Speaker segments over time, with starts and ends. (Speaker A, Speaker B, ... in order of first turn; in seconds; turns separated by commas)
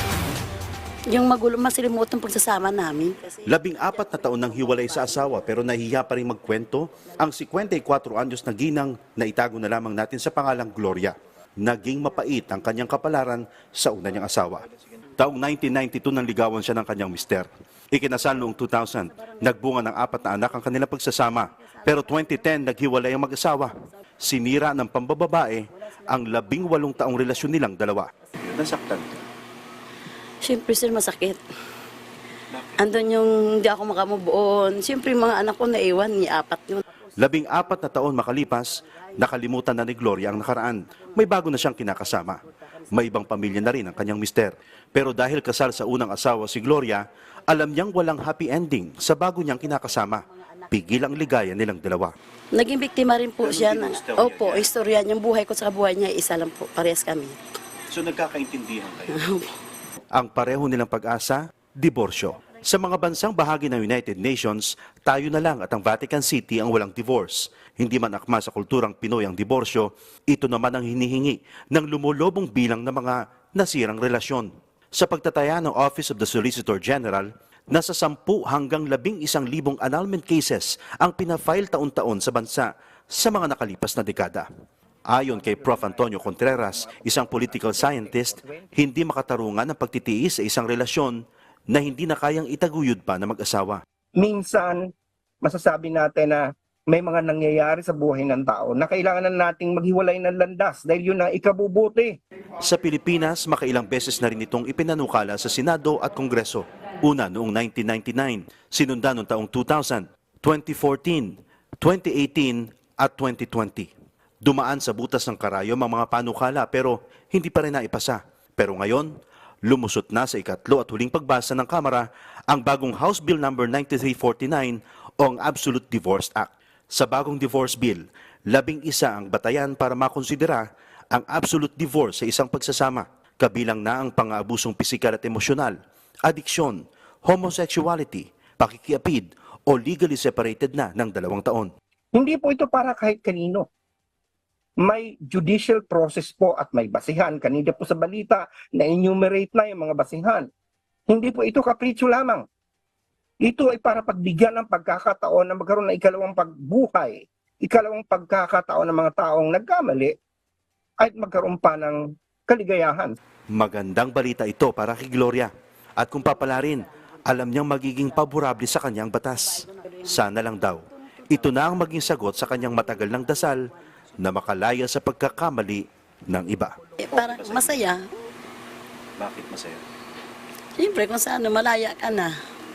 Speaker A: 1.1-5.2, Speaker B: 3.5-29.2, Speaker A: 30.4-31.4, Speaker B: 32.5-32.9, Speaker A: 32.8-36.8, Speaker B: 37.2-52.1, Speaker A: 52.5-57.4, Speaker B: 53.4-54.7, Speaker B: 57.9-59.2, Speaker A: 59.1-59.5, Speaker B: 60.1-84.5, Speaker B: 85.1-93.8, Speaker C: 85.2-88.7, Speaker C: 94.2-102.2, Speaker B: 102.6-113.9, Speaker B: 114.4-119.1, Speaker B: 119.6-135.7, Speaker B: 136.2-141.7, Speaker C: 142.1-143.7, Speaker C: 144.8-150.5, Speaker C: 151.1-152.4, Speaker C: 153.4-160.2, Speaker C: 161.0-163.2, Speaker B: 163.5-177.8, Speaker A: 177.0-178.0, Speaker B: 179.2-179.8, Speaker A: 180.8-182.3